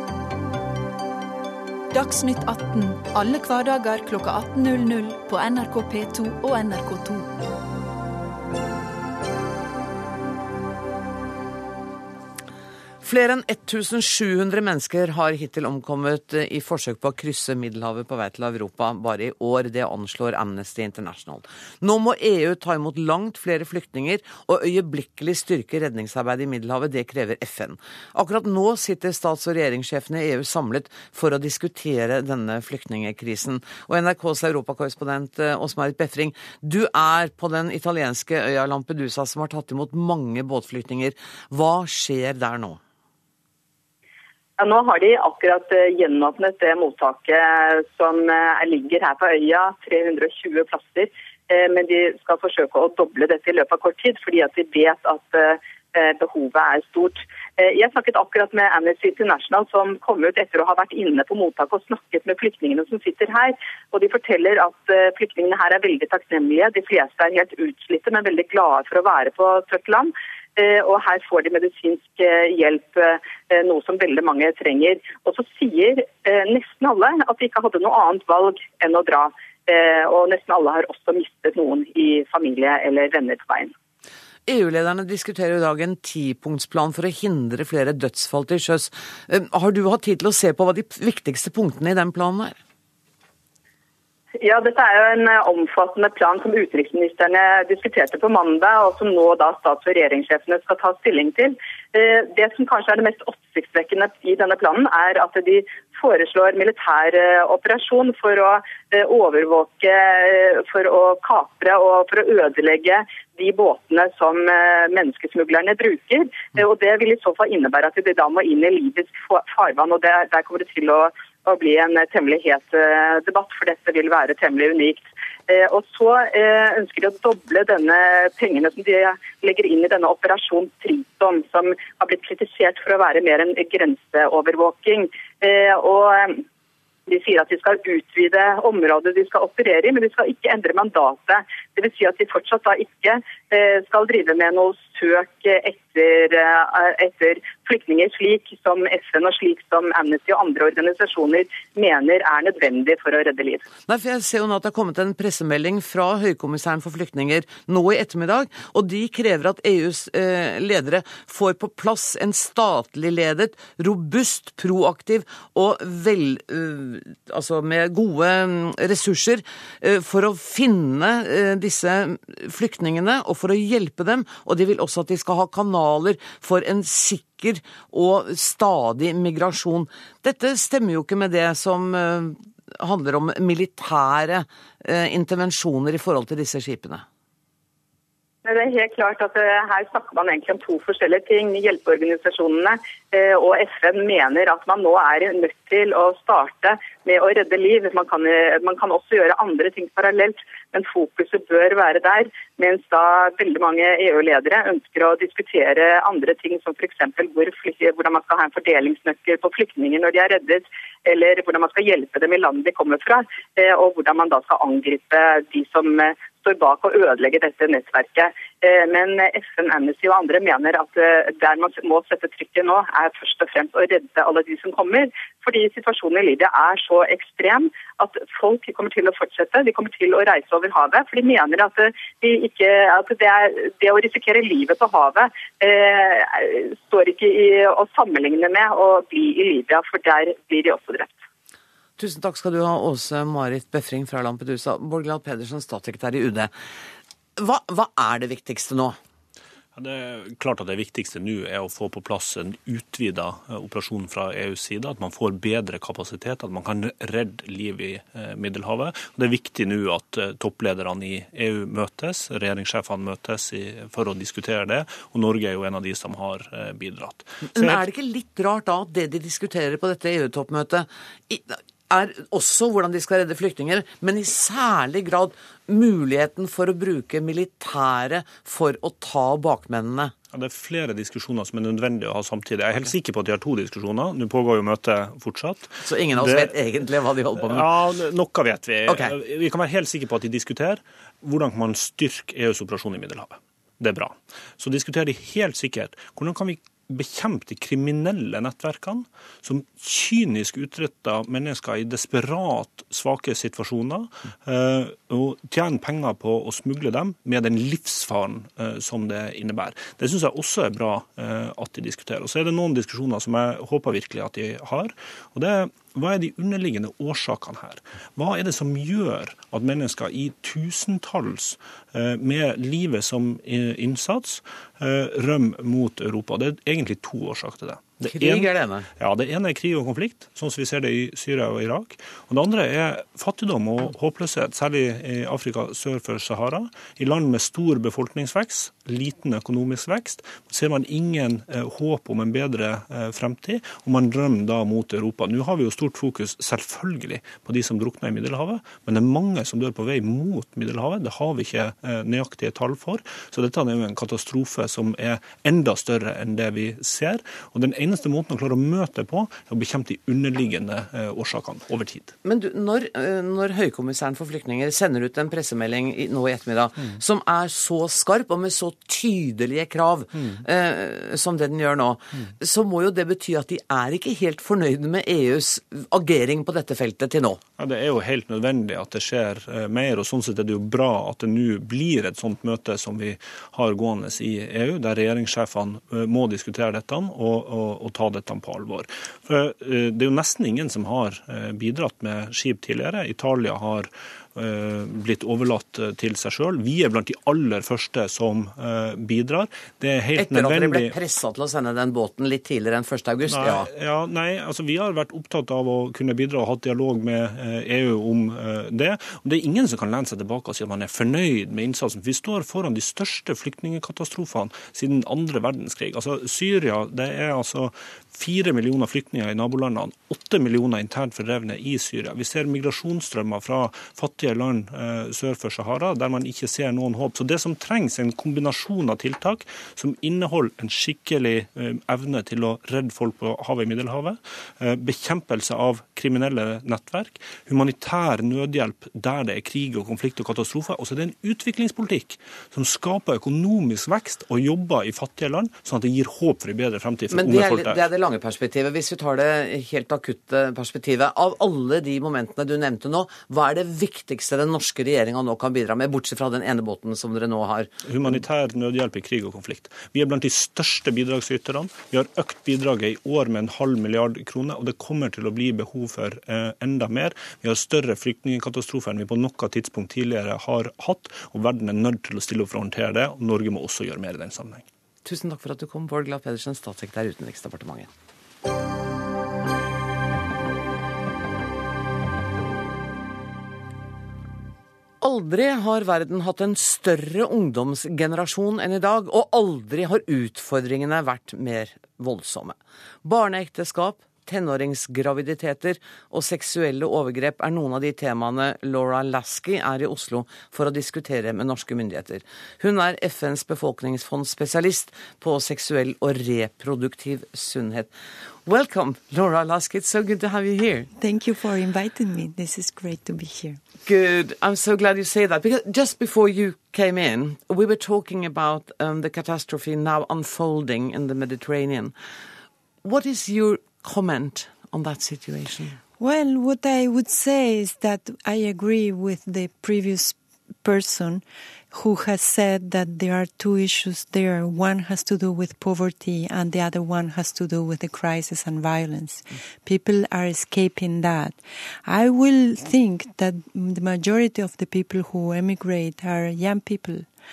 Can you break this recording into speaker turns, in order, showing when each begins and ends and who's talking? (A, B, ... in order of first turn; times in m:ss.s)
0:01.9-0:07.3 A
0:13.0-0:42.8 B
0:44.6-1:23.7 C
1:24.5-1:32.6 B
1:34.4-2:16.4 C
2:17.1-2:33.6 C
2:33.9-3:07.0 B
3:08.4-4:01.1 C
4:02.0-4:06.5 B
4:07.4-4:09.0 B
4:09.8-4:27.8 D
4:27.5-4:40.1 B
4:40.3-4:46.6 D
4:45.8-4:47.6 B
4:47.4-6:02.1 D
4:48.9-4:49.1 B
5:28.1-5:28.9 B
6:02.2-6:17.4 B
6:17.6-6:41.0 D
6:40.2-6:43.7 B
6:43.3-7:27.8 D
7:27.1-7:37.7 B
7:37.8-7:54.6 D
7:55.0-7:57.9 B
8:05.0-8:27.9 B
8:28.5-8:30.9 B
8:31.0-8:33.6 E
8:33.8-8:41.9 B
8:42.8-8:45.8 B
8:46.0-9:07.1 E